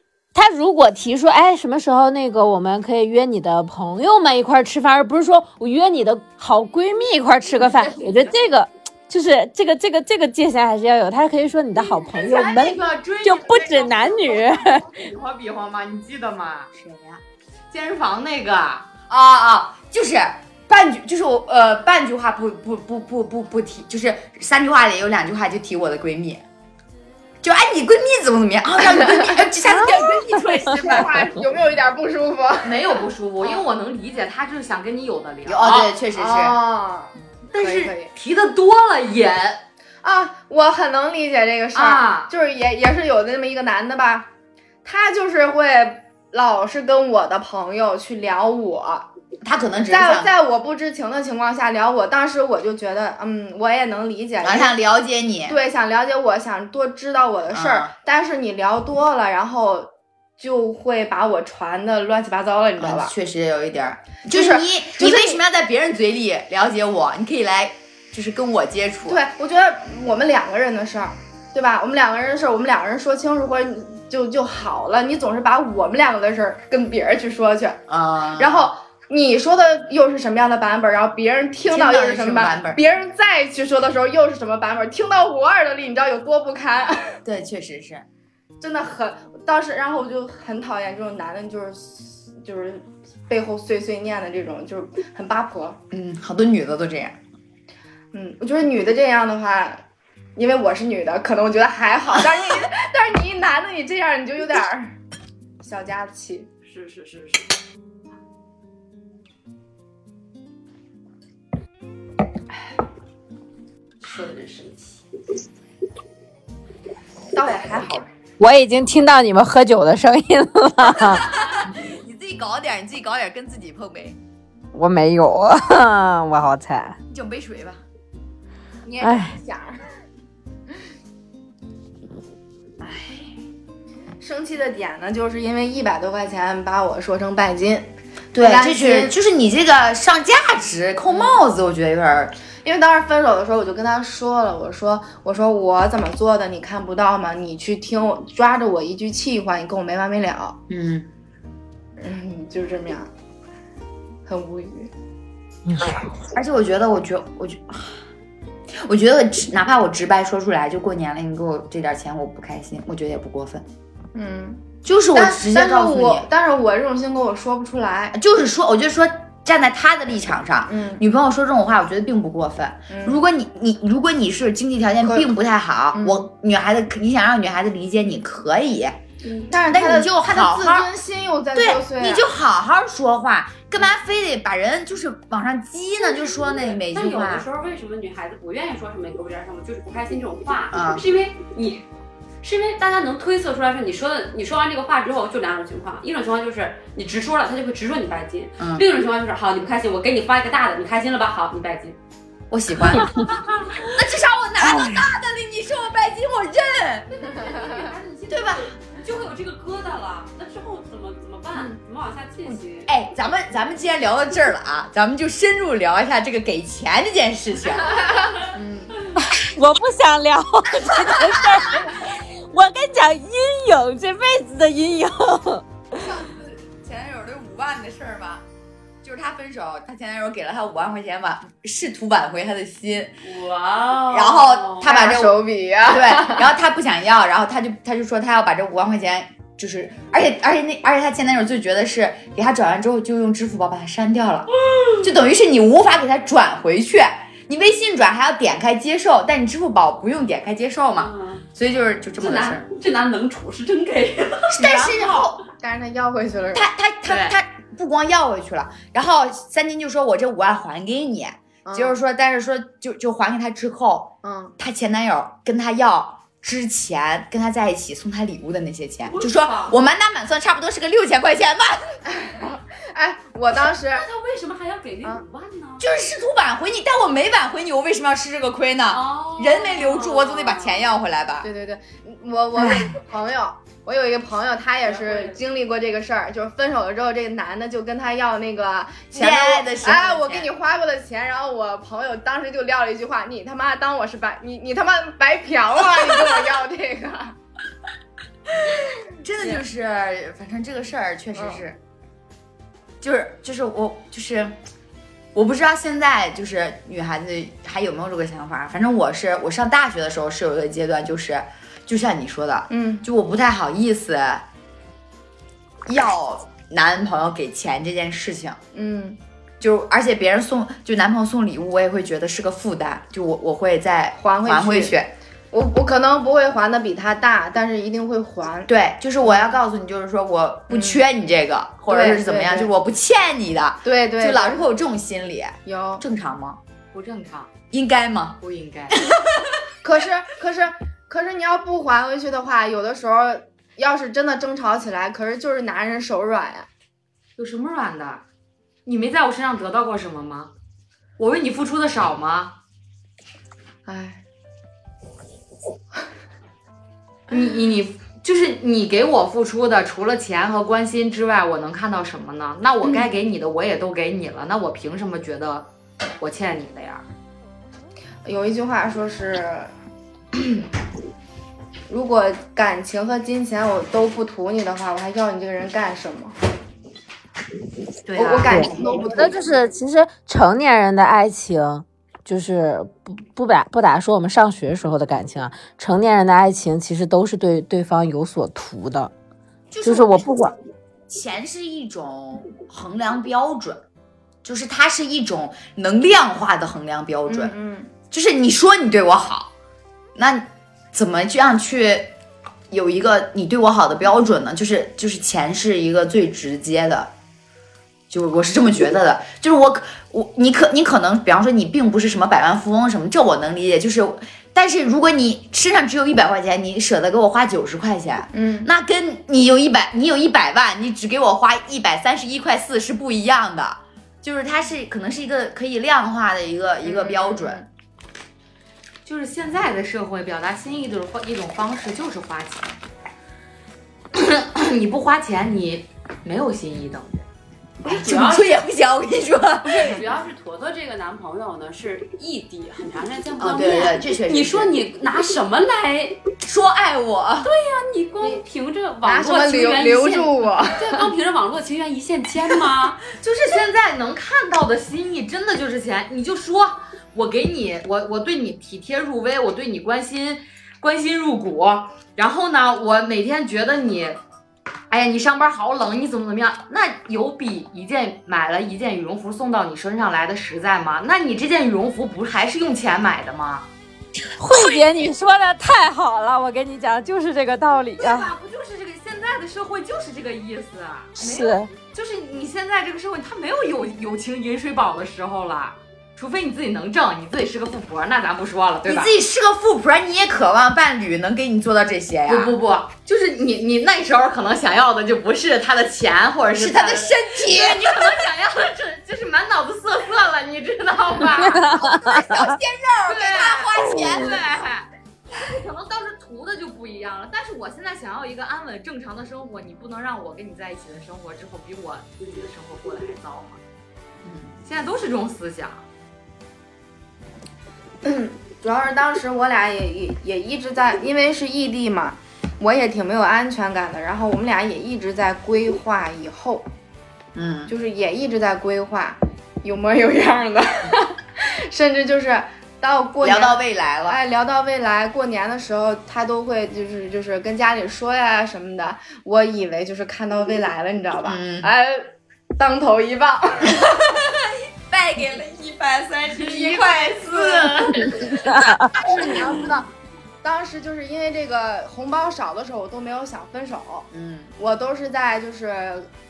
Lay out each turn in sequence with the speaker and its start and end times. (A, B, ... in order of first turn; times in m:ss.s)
0:00.3-0:15.0 A
0:07.8-0:08.2 B
0:11.8-0:16.7 B
0:16.7-0:17.2 C
0:17.7-0:18.9 B
0:19.1-0:26.4 C
0:27.4-0:31.3 C
0:29.0-0:29.4 D
0:29.8-0:30.8 A
0:30.7-0:33.6 D
0:32.6-0:35.9 B
0:35.4-0:36.6 C
0:36.1-0:38.1 D
0:37.5-0:39.6 B
0:40.0-0:44.3 D
0:41.7-0:42.3 B
0:44.8-0:49.1 D
0:49.4-0:50.3 C
0:49.9-0:54.8 D
0:54.4-0:55.6 C
0:55.5-1:03.1 D
0:57.5-0:57.9 C
1:02.8-1:09.2 C
1:04.3-1:05.4 D
1:09.1-1:17.8 D
1:17.9-1:18.7 C
1:18.4-1:27.2 D
1:21.7-1:22.8 C
1:27.2-1:28.1 C
1:28.6-1:35.8 D
1:35.9-1:37.2 C
1:38.1-1:39.8 D
1:40.4-1:45.0 D
1:45.6-1:46.5 D
1:46.6-1:47.5 E
1:54.0-1:55.0 E
1:57.3-1:58.1 D
1:58.4-2:01.3 A
2:00.8-2:04.2 C
2:04.7-2:07.0 A
2:07.1-2:07.8 C
2:08.8-2:09.8 D
2:09.0-2:09.4 A
2:14.2-2:19.2 D
2:18.3-2:22.3 C
2:22.6-2:30.6 D
2:30.7-2:31.1 C
2:32.0-2:33.1 D
2:34.3-2:34.9 D
2:36.3-2:38.0 C
2:38.8-2:43.7 C
2:44.2-2:48.2 D
2:44.8-2:46.3 C
2:48.1-2:59.0 C
2:50.7-2:51.0 D
2:52.9-2:53.2 D
2:55.0-2:55.3 D
2:55.9-2:56.3 D
2:59.2-3:02.3 D
2:59.7-3:00.9 C
3:01.5-3:07.5 C
3:06.2-3:11.8 E
3:10.7-3:11.0 C
3:12.4-3:22.0 E
3:18.6-3:18.9 C
3:22.5-3:23.3 C
3:23.1-3:23.8 E
3:23.8-3:27.1 C
3:27.1-3:32.9 E
3:27.6-3:27.8 D
3:28.3-3:28.7 C
3:32.5-3:38.2 C
3:38.5-3:39.0 D
3:39.2-3:45.6 A
3:45.9-3:48.4 C
3:49.0-3:53.2 C
3:53.2-3:54.9 E
3:54.1-4:04.5 C
3:54.8-3:56.5 D
4:04.7-4:05.0 E
4:05.0-4:12.6 C
4:11.0-4:11.4 E
4:12.2-4:15.2 E
4:14.5-4:15.4 C
4:15.6-4:16.7 D
4:16.5-4:31.9 C
4:17.1-4:17.4 B
4:21.6-4:22.0 D
4:24.2-4:24.6 D
4:29.1-4:29.8 E
4:32.1-4:34.0 D
4:33.9-4:35.9 E
4:35.8-4:41.5 C
4:38.9-4:40.9 E
4:41.4-4:57.4 D
4:44.8-4:45.4 E
4:49.1-4:50.5 C
4:59.2-5:01.8 C
5:01.4-5:01.6 D
5:03.0-5:04.6 C
5:05.3-5:14.5 C
5:12.7-5:13.1 D
5:15.9-5:18.6 C
5:18.7-5:19.2 D
5:19.6-5:25.1 C
5:24.2-5:25.0 D
5:25.5-5:28.7 D
5:28.7-5:36.6 C
5:29.2-5:29.5 D
5:30.7-5:31.0 D
5:31.9-5:32.7 D
5:33.8-5:34.6 D
5:35.7-5:36.0 D
5:36.9-5:37.5 B
5:37.7-5:38.4 C
5:38.4-5:39.0 B
5:38.9-5:39.4 C
5:39.8-5:46.7 D
5:47.4-5:48.2 B
5:48.8-5:50.5 B
5:51.2-5:52.6 B
5:53.9-5:54.2 D
5:57.3-6:07.0 B
6:08.2-6:09.7 D
6:11.9-6:16.3 D
6:18.1-6:18.8 B
6:18.2-6:19.5 D
6:18.5-6:29.1 A
6:29.7-6:30.3 C
6:29.8-6:30.6 A
6:31.1-6:33.8 C
6:34.4-6:37.6 C
6:37.3-6:37.9 D
6:38.1-6:39.5 C
6:40.2-6:42.1 C
6:42.7-6:47.1 C
6:48.1-7:07.6 C
6:58.3-6:58.7 D
7:06.8-7:07.7 D
7:09.0-7:12.8 B
7:14.1-7:17.2 B
7:17.8-7:20.0 C
7:17.8-7:18.6 E
7:19.6-7:26.2 E
7:23.4-7:24.8 C
7:26.4-7:27.5 C
7:27.4-7:33.0 E
7:29.0-7:31.0 D
7:33.1-7:44.2 B
7:44.9-7:53.7 B
7:54.4-7:58.3 A
7:58.0-8:09.1 B
8:01.2-8:01.7 A
8:08.8-8:12.6 C
8:12.3-8:21.9 B
8:16.5-8:18.3 C
8:21.5-8:22.4 A
8:21.8-8:24.4 C
8:23.1-8:33.6 B
8:34.2-8:34.6 C
8:34.6-8:35.8 B
8:38.0-8:46.7 D
8:47.4-8:47.7 C
8:47.7-9:03.8 D
8:53.2-8:54.2 C
9:01.2-9:01.7 C
9:03.7-9:08.4 C
9:06.4-9:07.9 B
9:08.2-9:09.0 A
9:09.0-9:09.9 D
9:10.4-9:16.1 D
9:14.1-9:14.5 C